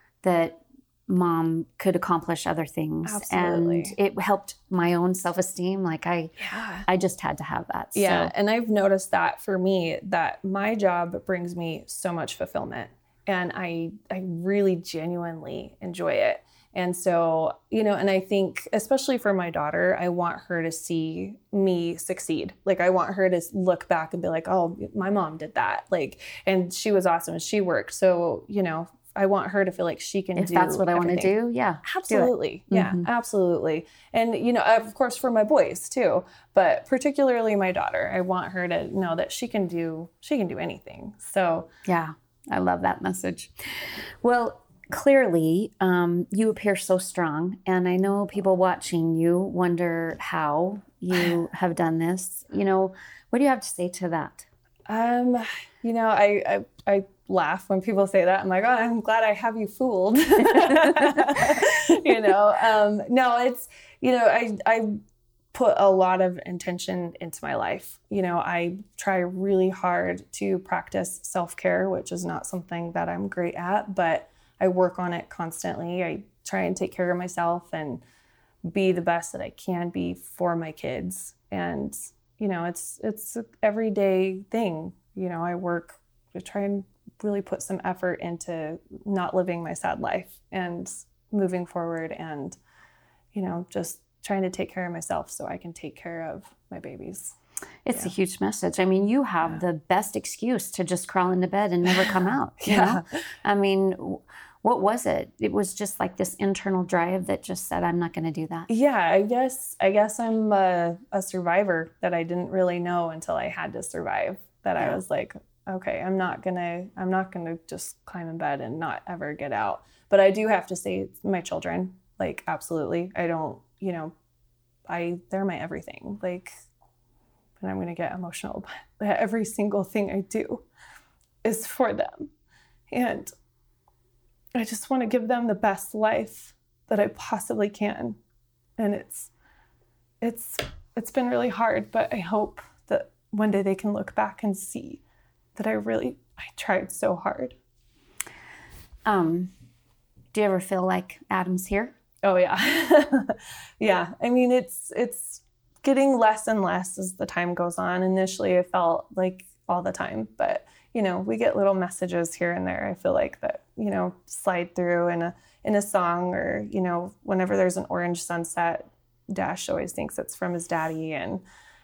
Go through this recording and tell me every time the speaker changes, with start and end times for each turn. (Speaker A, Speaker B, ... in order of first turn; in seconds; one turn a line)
Speaker A: 0.2-6.3
Speaker B: 3.0-3.9
Speaker B: 6.4-6.8
Speaker A: 6.9-8.3
Speaker B: 7.9-41.7
Speaker A: 30.4-33.0
Speaker A: 41.8-54.5
Speaker B: 54.9-64.9
Speaker A: 60.6-61.1
Speaker B: 65.5-78.0
Speaker B: 78.7-92.6
Speaker B: 93.3-97.3
Speaker A: 97.8-108.7
Speaker B: 102.6-103.2
Speaker B: 108.7-124.1
Speaker B: 124.9-126.5
Speaker B: 127.6-130.6
Speaker B: 131.4-132.3
Speaker B: 132.9-133.3
Speaker B: 134.5-138.2
Speaker B: 138.8-139.3
Speaker B: 140.2-145.0
Speaker B: 145.6-147.6
Speaker A: 149.1-149.5
Speaker A: 150.3-151.9
Speaker B: 152.2-171.4